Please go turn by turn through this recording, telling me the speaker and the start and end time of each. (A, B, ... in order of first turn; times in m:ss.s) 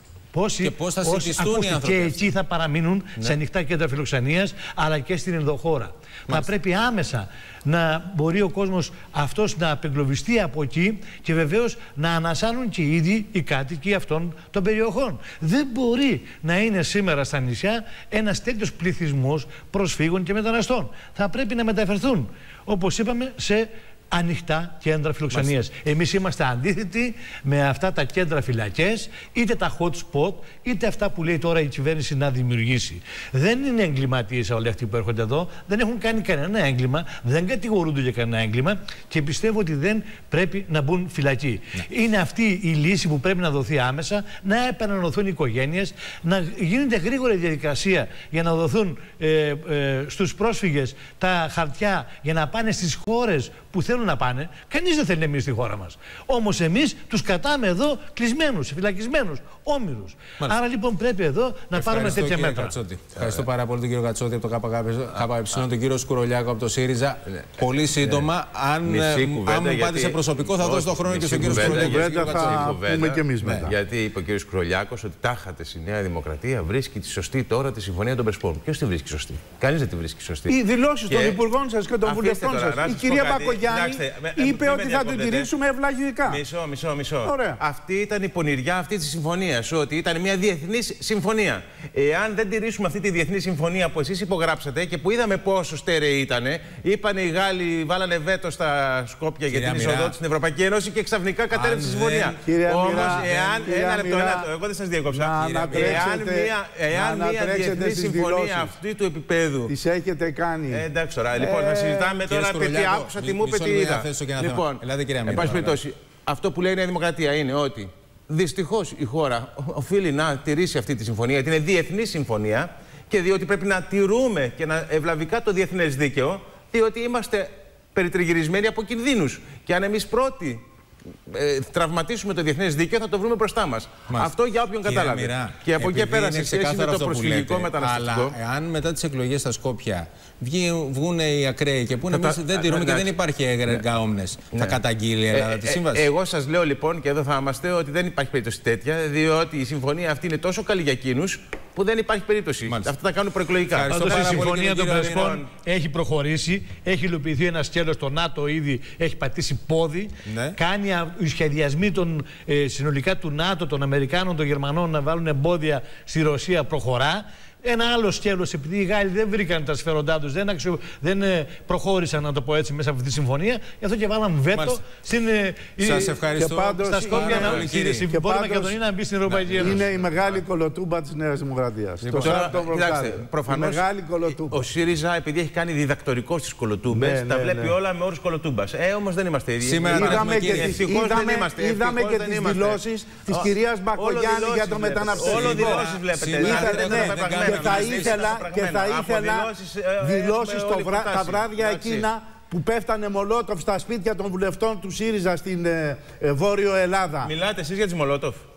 0:00.3-1:02.8 A
0:00.6-0:02.3 B
1:01.7-1:12.7 B
1:03.2-1:03.4 C
1:08.0-1:08.3 C
1:08.8-1:20.6 C
1:11.4-1:13.8 D
1:20.5-1:26.4 D
1:21.1-1:21.4 C
1:22.0-1:25.5 C
1:26.3-1:49.7 C
1:27.2-1:27.6 D
1:39.5-1:40.2 B
1:41.5-1:42.4 B
1:42.4-1:44.5 D
1:45.1-1:48.8 D
1:45.4-1:46.1 B
1:49.7-1:50.8 D
1:50.7-2:10.6 C
1:51.4-1:52.2 D
1:52.2-1:55.8 B
2:11.3-2:18.4 C
2:14.1-2:26.1 B
2:22.1-2:23.1 C
2:24.5-2:24.8 C
2:25.3-2:35.5 C
2:33.7-2:35.4 B
2:33.9-2:59.8 A
2:40.2-2:40.6 B
2:54.5-2:54.8 B
2:55.8-2:58.1 B
2:56.4-2:58.8 D
2:59.3-3:00.4 B
2:59.5-3:04.6 D
3:02.0-3:02.5 B
3:02.2-3:22.1 C
3:06.9-3:07.8 D
3:09.6-3:10.8 B
3:09.8-3:27.3 D
3:15.3-3:18.3 B
3:27.2-3:28.4 C